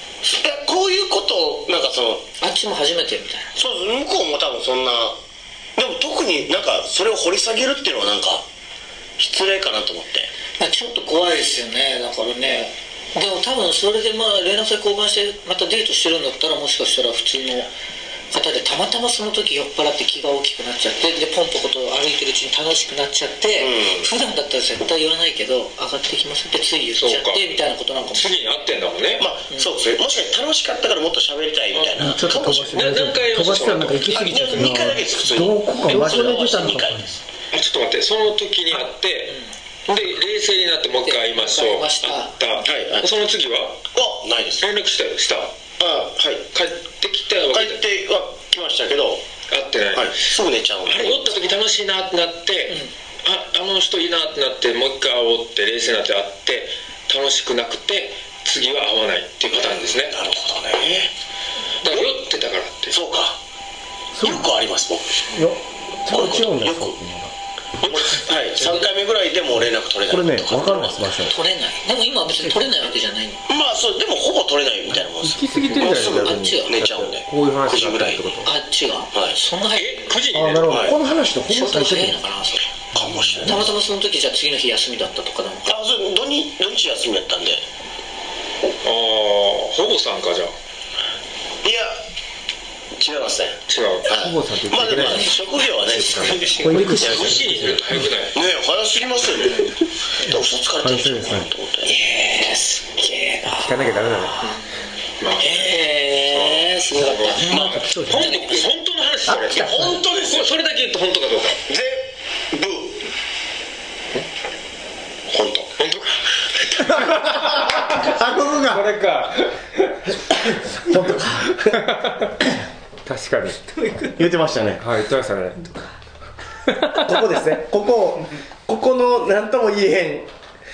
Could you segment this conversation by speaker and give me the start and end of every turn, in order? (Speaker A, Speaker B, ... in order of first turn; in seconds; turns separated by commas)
Speaker A: 0.2-2.3, Speaker B: 2.4-3.5, Speaker A: 3.6-5.2, Speaker A: 5.8-8.4, Speaker A: 9.2-10.3, Speaker B: 10.6-17.7, Speaker B: 18.3-28.4, Speaker A: 23.6-24.1, Speaker C: 27.0-27.5, Speaker C: 28.1-29.3, Speaker A: 29.2-32.9, Speaker C: 31.7-34.8, Speaker D: 32.0-37.0, Speaker A: 34.0-37.2, Speaker E: 35.9-36.8, Speaker C: 37.5-43.8, Speaker B: 41.0-42.5, Speaker A: 42.6-43.1, Speaker A: 43.9-44.7, Speaker C: 44.6-45.5, Speaker A: 45.8-46.6, Speaker C: 46.5-47.9, Speaker A: 47.5-49.3, Speaker C: 49.5-50.3, Speaker A: 49.9-51.4, Speaker C: 50.9-60.1, Speaker A: 59.5-61.1, Speaker C: 61.8-63.0, Speaker A: 62.9-63.4, Speaker D: 64.2-64.5, Speaker A: 64.2-65.2, Speaker D: 65.3-67.3, Speaker A: 66.1-67.0, Speaker A: 67.8-71.1, Speaker C: 67.9-68.2, Speaker D: 70.1-71.3, Speaker B: 71.2-73.4, Speaker A: 73.5-78.3, Speaker C: 75.2-78.5, Speaker B: 75.9-76.8, Speaker B: 78.5-80.2, Speaker A: 79.1-79.5, Speaker C: 79.7-81.0, Speaker D: 80.3-82.2, Speaker A: 80.7-81.0, Speaker B: 81.5-82.7, Speaker A: 82.9-83.7, Speaker D: 83.0-83.6, Speaker B: 83.4-85.7, Speaker A: 85.7-87.7, Speaker C: 88.8-90.6, Speaker A: 91.6-92.0, Speaker A: 93.0-97.8, Speaker C: 93.7-98.4, Speaker D: 96.6-97.8, Speaker E: 96.7-97.1, Speaker A: 98.3-102.0, Speaker D: 100.8-101.5, Speaker B: 101.9-104.8, Speaker C: 103.5-104.6, Speaker C: 105.2-105.7, Speaker B: 105.4-108.7, Speaker C: 106.3-111.6, Speaker E: 107.4-108.3, Speaker A: 109.3-110.5, Speaker A: 111.7-113.1, Speaker A: 115.3-115.8, Speaker C: 115.8-120.2, Speaker D: 116.8-118.9, Speaker D: 120.8-121.8, Speaker C: 121.6-122.4, Speaker C: 123.0-123.6, Speaker E: 123.7-124.2, Speaker D: 124.2-124.8, Speaker C: 124.8-125.6, Speaker E: 125.6-125.9, Speaker C: 126.7-127.2, Speaker D: 126.9-130.3